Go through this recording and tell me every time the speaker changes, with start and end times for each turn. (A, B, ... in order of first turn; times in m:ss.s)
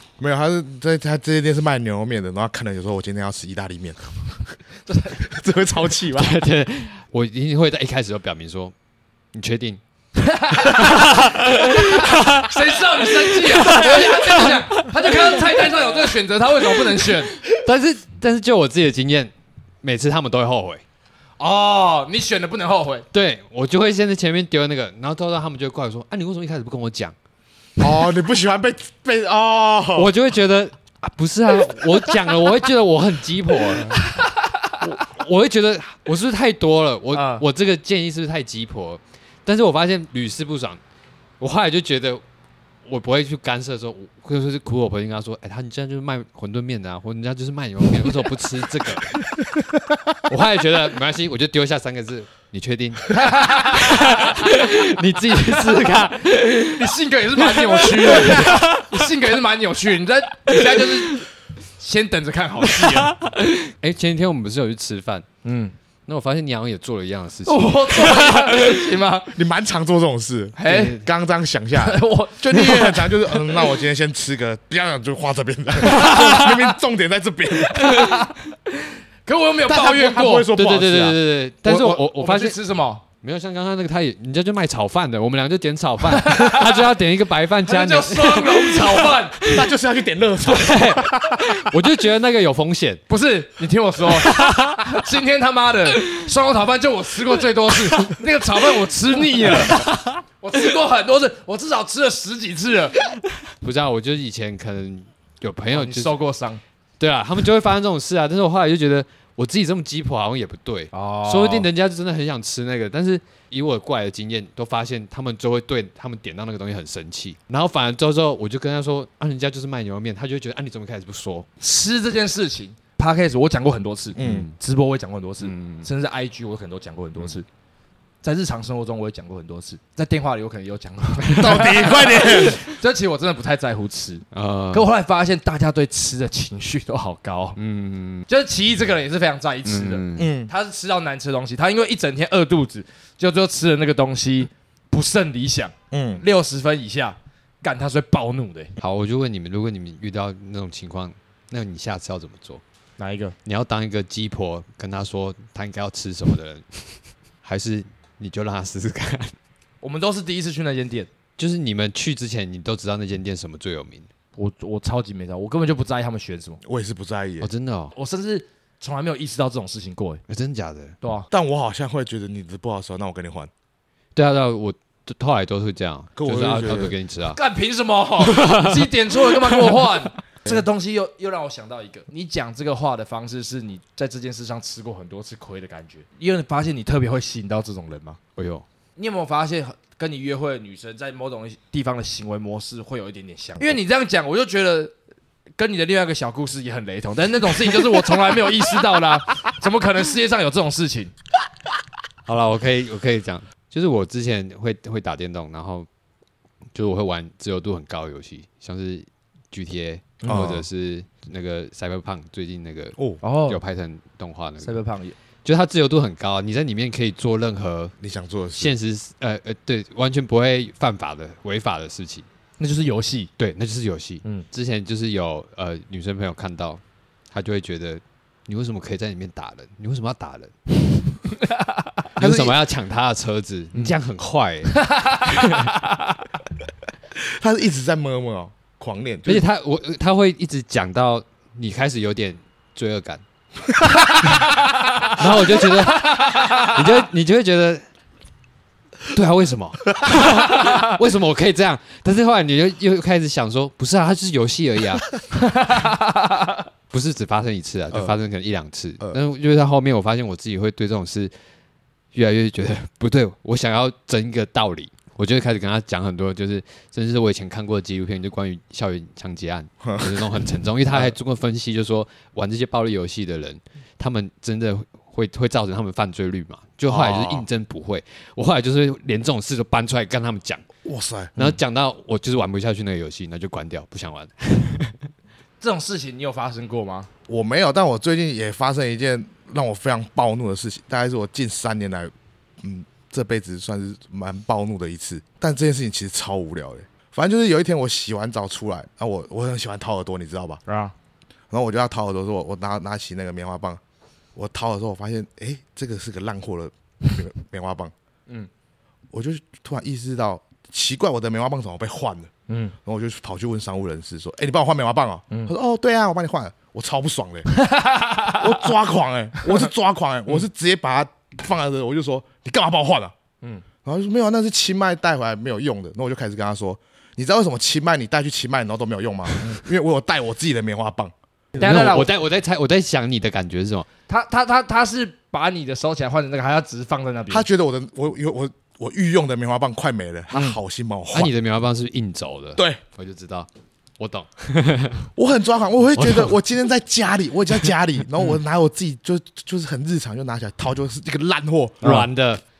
0:00.2-0:04.1 A
0:04.9-0:05.3 B
0:05.2-0:06.4 A
0:06.1-0:08.7 C
0:09.3-0:09.8 C
0:10.2-0:17.4 B
0:10.6-0:16.0 C
0:16.9-0:19.3 C
0:19.8-0:20.8 C
0:21.4-0:23.0 B
0:23.1-0:27.1 C
0:27.8-0:30.1 A
0:30.0-0:34.1 C
0:34.8-0:40.8 C
0:37.1-0:37.4 B
0:41.4-0:42.2 C
0:42.8-0:49.4 C
0:50.2-0:59.1 C
0:53.1-0:54.4 B
0:56.6-1:01.2 B
1:00.5-1:01.2 C
1:01.8-1:03.2 B
1:03.0-1:05.2 C
1:05.4-1:05.7 B
1:06.0-1:08.8 C
1:07.4-1:09.3 B
1:09.3-1:18.1 A
1:10.6-1:11.0 B
1:10.6-1:11.0 C
1:11.8-1:13.1 B
1:15.9-1:16.6 C
1:17.8-1:18.4 B
1:19.2-1:20.5 B
1:19.6-1:21.2 A
1:20.5-1:22.6 C
1:21.6-1:23.0 B
1:23.2-1:29.7 C
1:26.1-1:26.9 B
1:27.6-1:29.4 B
1:29.5-1:31.3 A
1:30.4-1:33.0 C
1:33.1-1:39.9 B
1:34.2-1:34.8 C
1:39.6-1:40.2 C
1:40.4-1:43.0 B
1:43.6-1:46.1 C
1:45.7-1:46.6 B
1:47.0-2:01.5 C
1:50.9-1:51.7 B
2:01.6-2:07.4 B
2:04.2-2:04.5 A
2:04.2-2:04.5 C
2:05.4-2:05.9 C
2:08.2-2:17.6 B
2:11.3-2:12.6 A
2:11.4-2:11.7 C
2:14.3-2:14.9 C
2:17.6-2:18.3 C
2:18.3-2:28.7 B
2:19.6-2:20.4 C
2:20.2-2:20.5 A
2:25.9-2:26.2 A
2:28.8-2:32.6 C
2:33.0-2:33.4 B
2:33.4-2:39.4 C
2:39.8-2:41.1 B
2:41.4-2:44.1 C
2:44.4-2:46.6 B
2:46.6-2:47.5 A
2:47.4-2:47.9 C
2:47.9-2:50.2 B
2:50.3-2:51.0 C
2:51.0-2:51.3 B
2:51.3-2:53.5 A
2:54.1-2:57.4 C
2:56.2-2:57.0 A
2:57.3-3:08.2 B
2:58.2-2:58.9 C
2:59.4-2:59.7 C
3:08.4-3:08.6 C
3:09.0-3:14.9 B
3:15.6-3:21.1 B
3:22.2-3:25.9 C
3:26.7-3:34.8 C
3:30.2-3:30.6 A
3:33.2-3:33.6 B
3:34.6-3:35.1 B
3:35.4-3:37.9 C
3:38.0-3:38.8 A
3:38.6-3:42.2 C
3:42.6-3:43.3 B
3:43.4-3:50.5 C
3:52.2-3:55.7 C
3:52.2-3:52.6 A
3:54.8-3:55.8 B
3:57.1-3:59.4 A
3:59.2-4:03.2 C
4:05.0-4:07.8 C
4:06.1-4:06.7 B
4:09.1-4:15.2 C
4:15.4-4:16.0 B
4:16.9-4:21.3 C
4:22.1-4:40.6 C
4:29.8-4:30.2 A
4:36.9-4:37.5 A
4:40.8-4:41.6 A
4:41.4-4:45.0 C
4:45.6-4:47.1 B
4:47.3-5:00.6 A
5:00.7-5:00.9 B
5:01.5-5:03.8 A
5:04.3-5:07.9 A
5:09.1-5:12.3 A
5:12.5-5:12.7 B
5:12.8-5:17.5 A
5:17.6-5:18.4 B
5:18.3-5:23.1 A
5:23.8-5:31.9 A
5:31.6-5:32.1 B
5:31.6-5:33.9 C
5:34.1-5:37.5 B
5:37.3-5:41.3 A
5:41.1-5:43.5 C
5:44.0-5:45.1 C
5:45.2-5:52.0 A
5:46.0-5:46.3 C
5:51.8-5:52.4 C